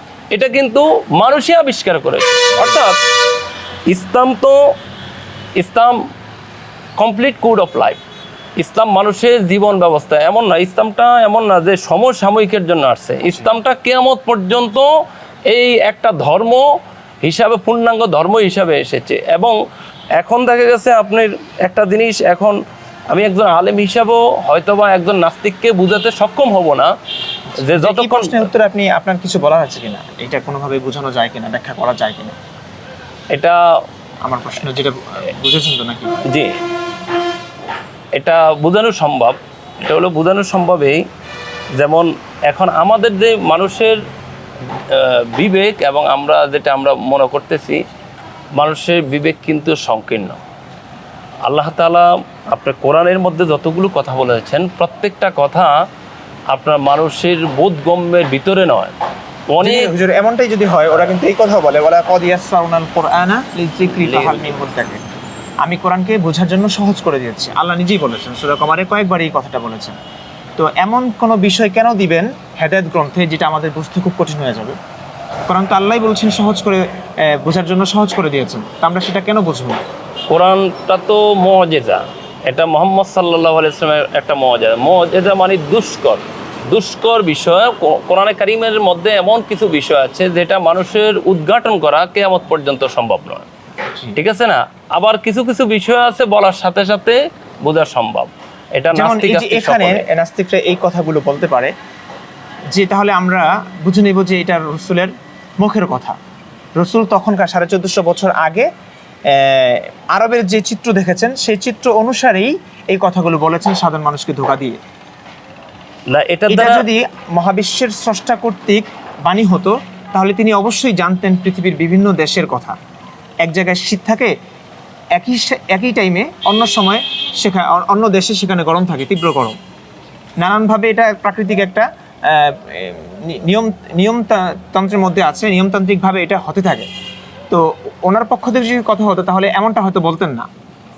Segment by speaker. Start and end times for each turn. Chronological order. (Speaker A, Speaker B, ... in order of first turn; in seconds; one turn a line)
Speaker A: 0.3-3.0
Speaker A: 3.9-4.8
Speaker A: 5.6-6.1
Speaker A: 7.0-8.0
Speaker A: 8.6-14.9
Speaker A: 15.5-19.6
Speaker A: 20.2-22.6
Speaker A: 23.1-26.9
Speaker B: 27.6-32.4
Speaker A: 27.6-28.5
Speaker A: 33.3-33.8
Speaker B: 34.2-36.2
Speaker A: 36.2-36.6
Speaker A: 38.1-41.1
Speaker A: 41.8-44.0
Speaker A: 44.7-47.8
Speaker A: 48.6-50.4
Speaker A: 51.4-55.8
Speaker A: 56.5-58.9
Speaker A: 59.5-59.9
Speaker B: 59.6-65.0
Speaker A: 64.0-64.5
Speaker B: 65.6-70.0
Speaker B: 70.6-74.8
Speaker B: 75.5-79.8
Speaker A: 80.3-93.5
Speaker A: 94.1-100.0
Speaker B: 98.9-101.7
Speaker B: 102.7-106.2
Speaker B: 106.8-108.7
Speaker B: 109.3-114.8
Speaker A: 116.1-116.8
Speaker B: 116.5-122.8
Speaker B: 123.4-124.3
Speaker B: 125.1-129.6
Speaker B: 130.4-136.9
Speaker B: 137.5-140.5